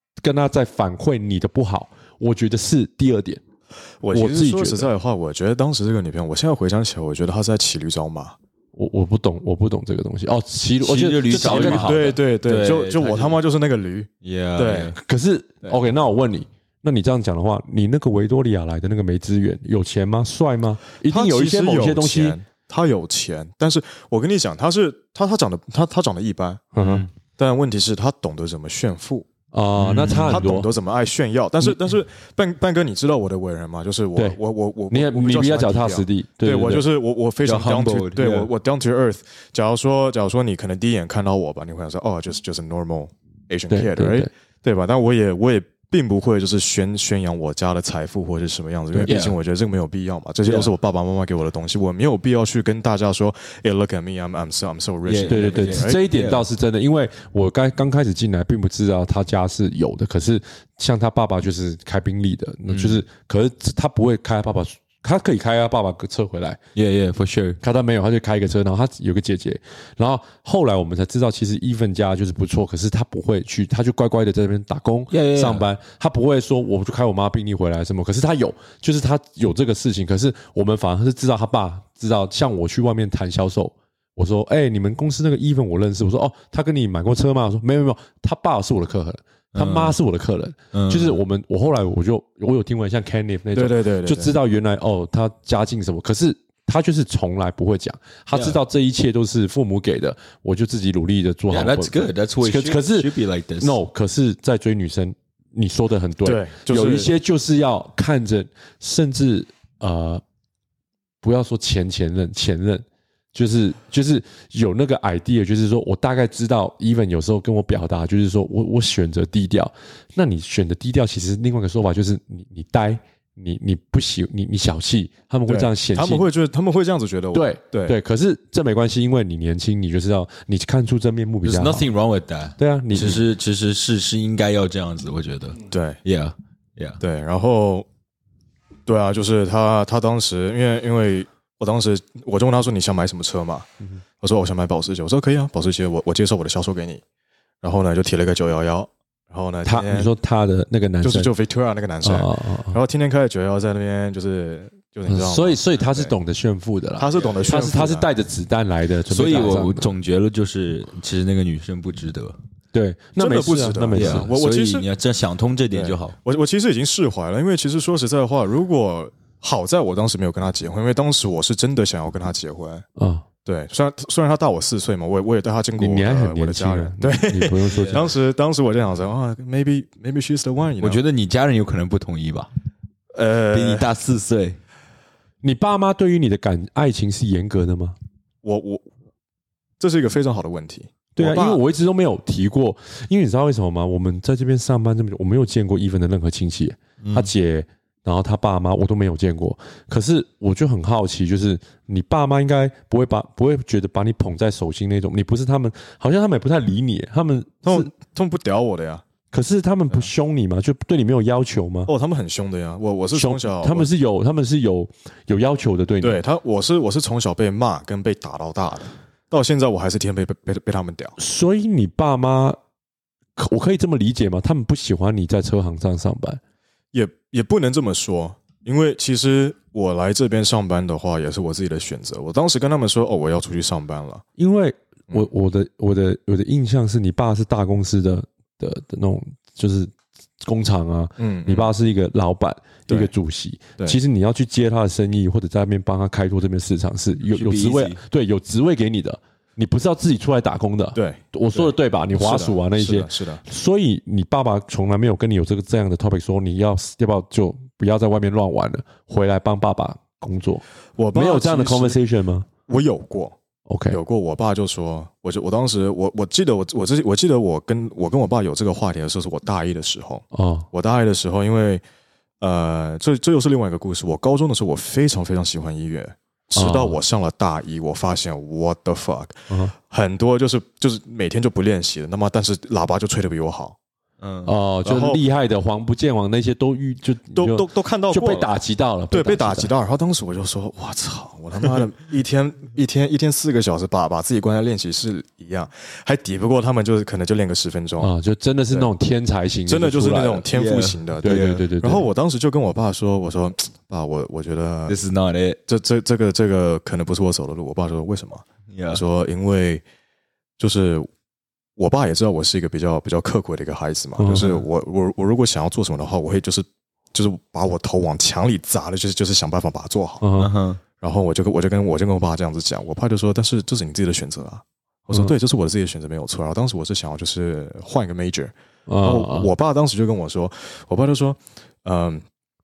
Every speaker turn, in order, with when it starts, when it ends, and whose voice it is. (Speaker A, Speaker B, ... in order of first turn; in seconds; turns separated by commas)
Speaker A: 0.2-3.4, Speaker B: 4.0-8.3, Speaker A: 4.1-4.9, Speaker A: 8.7-12.0, Speaker C: 10.8-13.4, Speaker B: 11.3-14.9, Speaker C: 14.2-15.0, Speaker A: 15.0-22.4, Speaker B: 21.0-26.7, Speaker A: 26.7-27.0, Speaker C: 26.8-27.1, Speaker B: 27.4-29.3, Speaker A: 29.5-30.7, Speaker C: 29.8-30.4, Speaker B: 30.3-56.0, Speaker A: 34.9-36.8, Speaker C: 37.4-38.5, Speaker A: 43.7-44.3, Speaker C: 49.0-49.4, Speaker C: 50.4-50.7, Speaker C: 55.0-56.4, Speaker A: 55.3-66.6, Speaker C: 62.7-63.0, Speaker C: 66.7-67.6, Speaker A: 67.6-110.2, Speaker C: 75.1-75.7, Speaker C: 89.5-90.0, Speaker C: 90.7-91.2, Speaker B: 93.5-94.3, Speaker C: 98.3-98.6, Speaker C: 101.5-103.8, Speaker B: 106.2-107.1, Speaker A: 111.2-126.3, Speaker B: 125.5-128.0, Speaker A: 127.3-131.9, Speaker C: 131.4-137.0, Speaker A: 132.6-133.2, Speaker B: 135.7-136.0, Speaker B: 137.0-137.9, Speaker B: 138.8-147.0, Speaker B: 147.6-150.1, Speaker A: 149.7-151.3, Speaker B: 151.0-156.1, Speaker A: 152.0-152.8, Speaker A: 155.1-159.9, Speaker B: 157.0-158.1, Speaker C: 159.1-162.4, Speaker A: 162.7-164.3, Speaker B: 163.2-164.8, Speaker C: 163.9-166.2, Speaker B: 165.7-172.8, Speaker A: 173.0-173.2, Speaker B: 173.4-181.0, Speaker A: 175.8-178.1, Speaker C: 177.7-178.0, Speaker C: 180.8-182.5, Speaker B: 183.1-183.9, Speaker C: 183.5-184.6, Speaker A: 185.4-187.9, Speaker B: 188.4-188.8, Speaker B: 189.8-191.6, Speaker A: 191.2-207.9, Speaker C: 197.0-197.3, Speaker B: 207.6-209.0, Speaker A: 209.3-211.9, Speaker B: 211.9-213.9, Speaker A: 213.1-216.2, Speaker B: 216.0-221.2, Speaker A: 221.2-222.6, Speaker A: 223.4-226.4, Speaker B: 226.9-234.2, Speaker A: 234.4-239.9, Speaker A: 240.4-262.5, Speaker B: 241.2-241.7, Speaker C: 247.3-248.0, Speaker B: 250.9-253.4, Speaker B: 261.0-262.0, Speaker B: 262.7-263.4, Speaker A: 263.7-264.0, Speaker B: 263.9-271.8, Speaker A: 270.3-270.7, Speaker B: 272.4-283.8, Speaker A: 276.5-277.0, Speaker C: 284.2-284.5, Speaker A: 284.4-289.7, Speaker B: 284.8-285.2, Speaker B: 287.3-288.5, Speaker B: 289.1-298.1, Speaker A: 298.0-300.5, Speaker B: 299.7-305.0, Speaker C: 300.5-301.7, Speaker A: 301.2-302.1, Speaker C: 304.9-305.6, Speaker B: 305.7-309.8, Speaker C: 308.7-309.0, Speaker B: 310.6-311.1, Speaker B: 311.8-320.2, Speaker A: 314.2-314.5, Speaker C: 314.3-314.6, Speaker A: 320.2-320.5, Speaker C: 320.4-320.8, Speaker B: 321.0-332.2, Speaker A: 328.9-329.5